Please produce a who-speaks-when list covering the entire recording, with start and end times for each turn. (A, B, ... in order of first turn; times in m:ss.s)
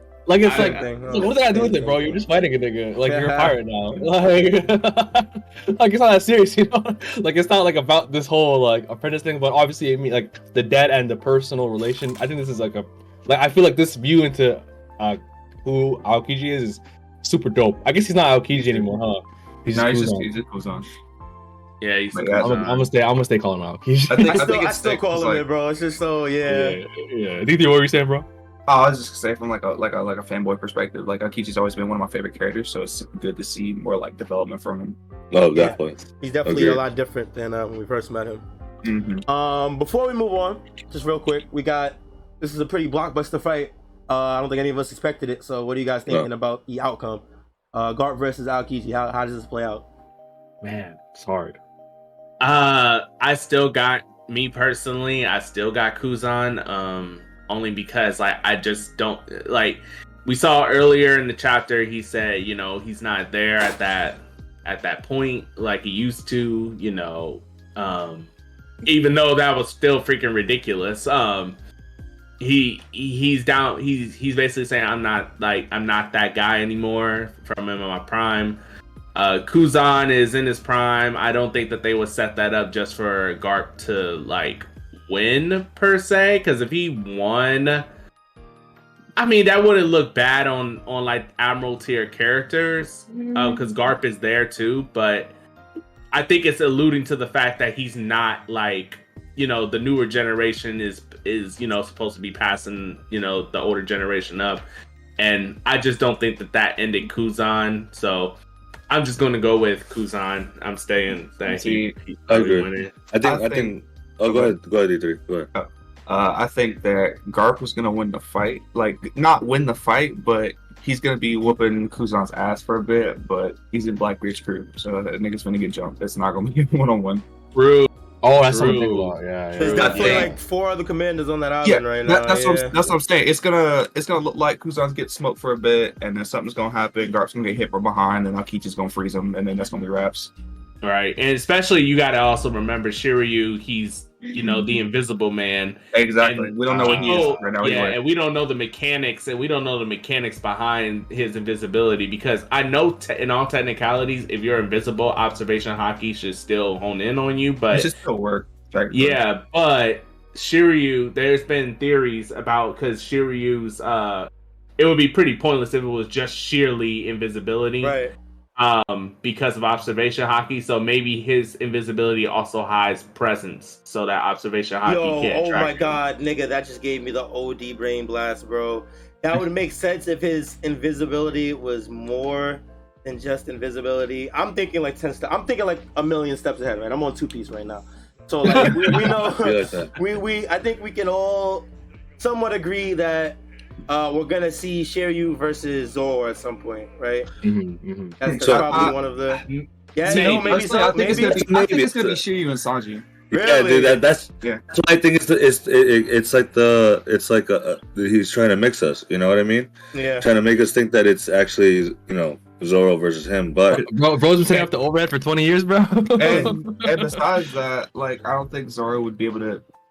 0:00.3-0:20.3 A
0:00.4-0:00.9 B
0:00.5-0:02.2 C
0:03.0-0:03.6 C
0:18.6-0:18.9 D
0:19.7-0:20.9 D
0:21.8-0:22.9 B
0:22.1-0:22.6 D
0:22.4-0:24.5 A
0:24.1-0:25.4 D
0:24.2-0:26.8 C
0:26.4-0:28.3 A
0:28.7-0:35.0 D
0:35.3-0:36.8 E
0:35.5-0:38.4 C
0:38.8-0:39.2 D
0:39.3-0:49.8 C
0:50.6-0:51.6 A
0:52.4-1:08.3 B
1:08.8-1:11.6 B
1:12.4-1:18.6 B
1:19.1-1:27.8 B
1:29.2-1:35.3 B
1:33.2-1:33.6 D
1:36.1-1:44.6 B
1:45.2-1:48.4 B
1:48.9-1:52.9 B
1:51.5-1:52.0 D
1:52.3-1:55.5 E
1:53.2-1:54.5 D
1:55.5-2:07.2 D
2:07.5-2:07.9 B
2:08.2-2:10.3 A
2:08.5-2:10.3 B
2:09.6-2:12.8 C
2:09.8-2:10.3 D
2:11.6-2:20.3 D
2:20.8-2:37.9 B
2:24.3-2:24.7 D
2:25.9-2:28.0 D
2:26.7-2:27.3 A
2:37.7-2:39.2 D
2:38.9-2:48.0 B
2:47.8-2:48.1 C
2:48.6-2:56.0 B
2:54.8-3:11.7 C
3:08.5-3:08.8 D
3:09.2-3:09.9 E
3:12.2-3:17.3 C
3:17.4-3:18.2 A
3:18.2-3:19.4 C
3:18.2-3:19.0 D
3:18.4-3:18.9 E
3:19.4-3:20.6 B
3:20.0-3:21.5 C
3:20.0-3:23.2 D
3:21.2-3:22.2 E
3:23.3-3:33.9 E
3:23.3-3:24.0 C
3:29.9-3:30.3 C
3:33.7-3:37.2 A
3:36.2-3:39.6 D